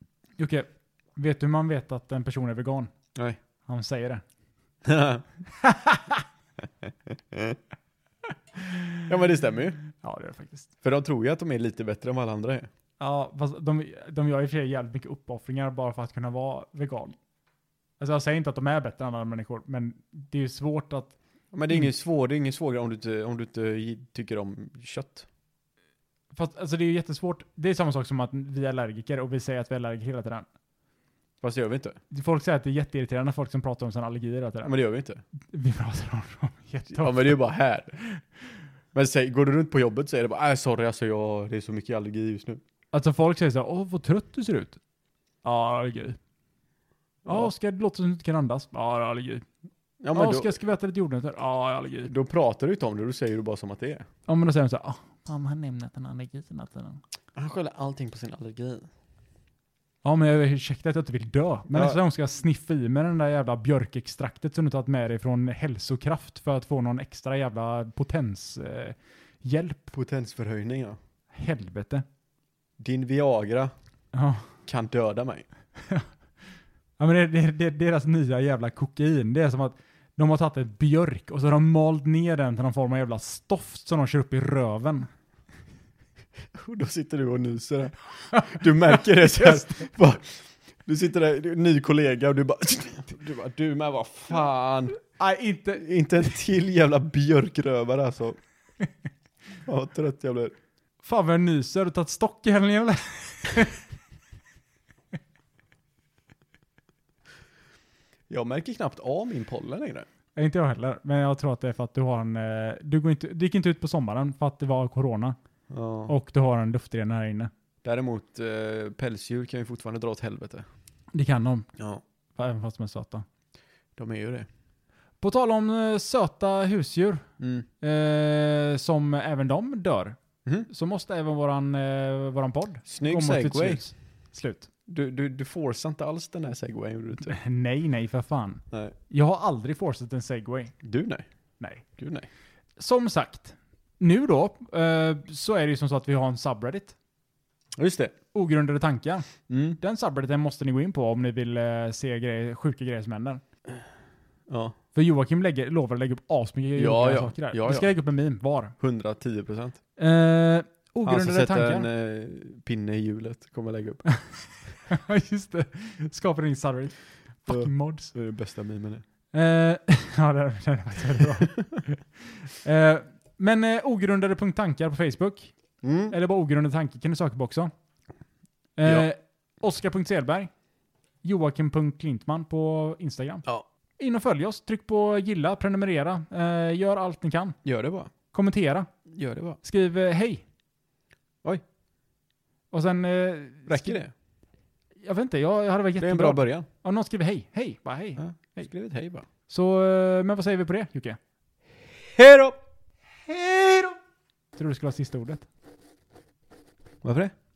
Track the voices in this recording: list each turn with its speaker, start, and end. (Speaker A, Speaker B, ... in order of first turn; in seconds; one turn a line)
Speaker A: 0.4-2.9
Speaker A: 3.7-4.2
Speaker B: 4.8-5.2
Speaker A: 5.5-6.2
Speaker B: 6.8-7.6
Speaker A: 8.6-9.1
Speaker B: 9.1-9.8
Speaker A: 9.9-10.7
Speaker B: 10.8-12.7
Speaker A: 13.0-17.1
Speaker A: 18.0-21.1
Speaker B: 21.5-25.2
Speaker A: 26.3-30.5
Speaker B: 31.4-32.0
Speaker A: 32.1-34.7
Speaker B: 34.6-35.2
Speaker A: 35.4-37.4
Speaker B: 36.9-38.0
Speaker B: 38.9-42.6
Speaker A: 42.9-44.8
Speaker A: 45.4-46.2
Speaker B: 47.2-47.5
Speaker A: 47.2-49.5
Speaker B: 50.0-50.6
Speaker A: 50.1-52.1
Speaker B: 52.0-54.0
Speaker A: 54.3-57.0
Speaker B: 57.3-58.9
Speaker A: 60.0-69.9
Speaker B: 61.7-62.0
Speaker B: 69.9-71.0
Speaker A: 71.3-72.0
Speaker B: 72.8-73.7
Speaker A: 74.1-74.5
Speaker B: 74.7-75.5
Speaker A: 77.0-85.1
Speaker B: 86.5-95.0
Speaker A: 88.3-89.9
Speaker A: 95.2-95.9
Speaker B: 95.8-98.4
Speaker B: 99.6-100.5
Speaker A: 101.0-103.8
Speaker B: 108.3-110.1
Speaker A: 110.3-115.3
Speaker B: 115.7-116.1
Speaker A: 116.1-117.5
Speaker B: 117.8-120.7
Speaker A: 121.1-121.7
Speaker B: 121.8-122.0
Speaker A: 122.3-123.2
Speaker B: 124.0-124.5
Speaker A: 125.2-127.2
Speaker B: 127.4-127.7
Speaker A: 127.8-134.7
Speaker B: 132.9-133.8
Speaker B: 134.9-137.3
Speaker A: 137.2-140.7
Speaker B: 140.8-141.2
Speaker A: 141.6-141.8
Speaker B: 142.0-142.3
Speaker A: 142.8-146.9
Speaker B: 147.8-148.1
Speaker A: 148.3-153.4
Speaker B: 149.5-149.8
Speaker B: 154.5-154.7
Speaker A: 154.9-158.7
Speaker B: 156.8-157.9
Speaker B: 158.8-159.8
Speaker A: 160.0-161.9
Speaker B: 161.0-164.0
Speaker A: 164.1-168.1
Speaker B: 167.5-169.0
Speaker A: 169.3-175.5
Speaker B: 175.8-176.1
Speaker A: 176.1-177.7
Speaker A: 178.8-180.5
Speaker A: 181.2-183.4
Speaker A: 184.0-187.6
Speaker B: 187.6-188.1
Speaker A: 188.3-188.9
Speaker B: 189.1-189.6
Speaker A: 189.6-190.4
Speaker A: 192.7-194.0
Speaker B: 193.7-194.1
Speaker A: 195.0-198.7
Speaker B: 196.0-196.7
Speaker B: 198.2-199.2
Speaker A: 199.5-201.2
Speaker B: 202.1-202.6
Speaker A: 203.3-203.9
Speaker A: 204.6-205.5
Speaker B: 207.0-207.3